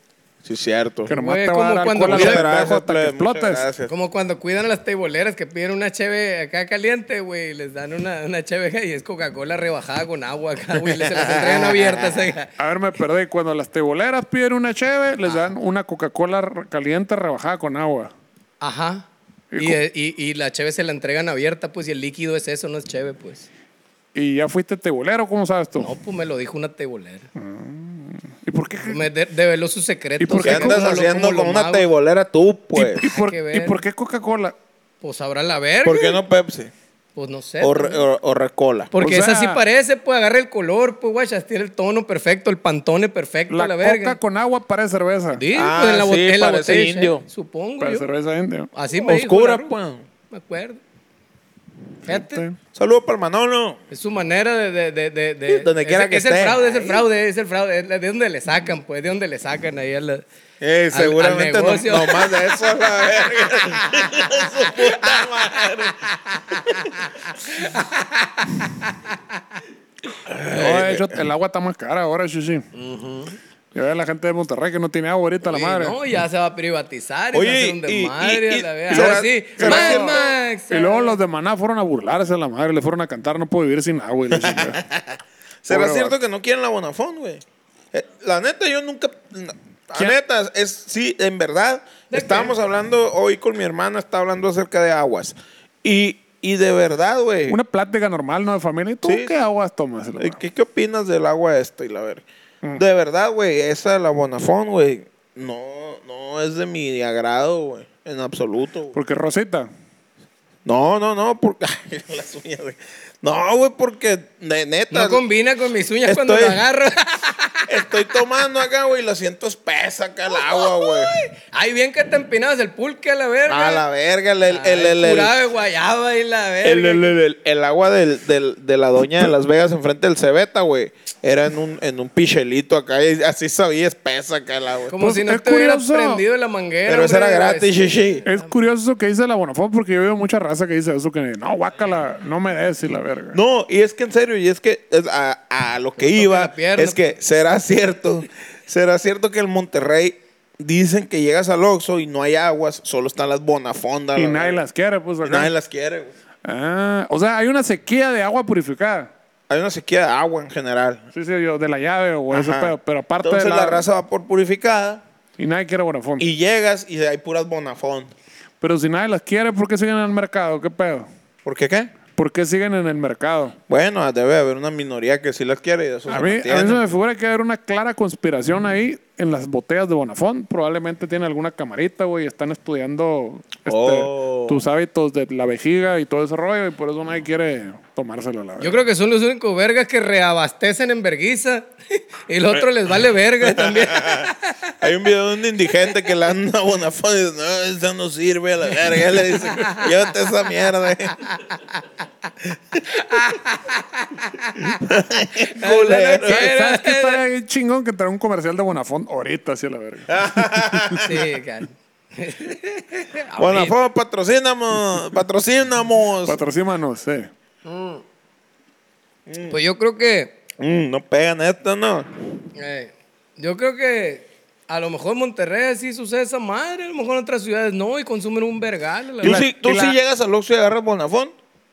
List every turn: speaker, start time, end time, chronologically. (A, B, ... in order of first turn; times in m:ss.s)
0:00.4-0:01.1 A
0:01.1-0:02.5 B
0:01.1-0:03.6 C
0:01.8-0:03.9 A
0:03.9-0:12.5 B
0:10.9-0:12.3 A
0:12.6-0:18.1 C
0:18.6-0:19.1 B
0:19.5-0:19.8 C
0:19.6-0:23.5 B
0:24.1-0:25.9 C
0:25.8-0:27.3 B
0:27.4-0:29.0 C
0:28.8-0:31.9 B
0:30.2-0:30.9 C
0:30.4-0:33.0 A
0:32.7-0:34.5 C
0:33.0-0:33.8 B
0:35.0-0:36.2 B
0:35.8-0:36.7 A
0:37.2-0:38.0 B
0:37.6-0:38.9 A
0:38.9-0:44.2 B
0:39.0-0:39.6 C
0:43.5-0:45.4 C
0:45.4-0:48.1 B
0:45.5-0:47.2 A
0:47.8-0:48.7 C
0:48.7-0:49.7 B
0:49.0-0:50.0 A
0:50.3-0:50.8 B
0:52.1-0:52.4 B
0:52.1-0:52.6 C
0:52.7-0:53.8 A
0:53.9-1:00.2 B
0:55.5-0:57.0 A
1:00.6-1:06.9 A
1:00.9-1:02.5 B
1:03.7-1:05.4 B
1:06.3-1:09.2 B
1:10.3-1:11.1 A
1:10.5-1:12.6 C
1:12.7-1:13.4 B
1:13.7-1:16.0 C
1:15.4-1:21.2 B
1:17.3-1:20.2 A
1:18.9-1:24.8 C
1:24.3-1:37.6 A
1:25.7-1:26.1 C
1:32.1-1:32.5 B
1:37.5-1:40.4 C
1:39.0-1:39.3 A
1:40.2-1:42.2 A
1:42.8-1:49.0 A
1:48.9-1:49.7 C
1:50.6-1:55.2 A
1:54.9-1:57.8 B
1:56.0-1:56.6 A
1:57.7-2:01.2 A
2:00.3-2:03.8 B
2:03.5-2:05.3 A
2:04.5-2:07.2 B
2:06.6-2:14.9 A
2:14.9-2:18.5 B
2:15.0-2:16.2 C
2:16.8-2:18.2 A
2:18.2-2:23.4 C
2:23.3-2:34.6 A
2:26.0-2:27.1 B
2:34.2-2:35.5 C
2:35.2-2:36.1 A
2:36.4-2:39.1 C
2:39.5-2:41.1 A
2:41.1-2:43.8 C
2:42.3-2:45.0 A
2:45.4-2:46.3 C
2:46.2-2:48.1 A
2:48.6-2:51.1 C
2:51.4-2:51.9 A
2:52.2-2:53.6 C
2:53.7-2:56.8 A
2:56.1-3:08.8 C
3:03.7-3:04.6 A
3:08.6-3:14.9 B
3:13.4-3:21.3 A
3:18.9-3:19.9 B
3:21.3-3:21.9 B
3:22.4-3:22.8 A
3:22.8-3:24.8 B
3:24.8-3:26.5 A
3:25.4-3:27.2 B
3:26.4-3:31.0 C
3:30.1-3:31.2 A
3:31.0-3:33.7 B
3:33.4-3:36.4 A
3:36.2-3:37.3 C
3:37.6-3:38.0 B
3:39.2-3:39.6 A
3:39.5-3:40.3 B
3:40.6-3:42.1 A
3:42.5-3:49.4 B
3:49.2-3:50.0 C
3:49.2-3:51.3 A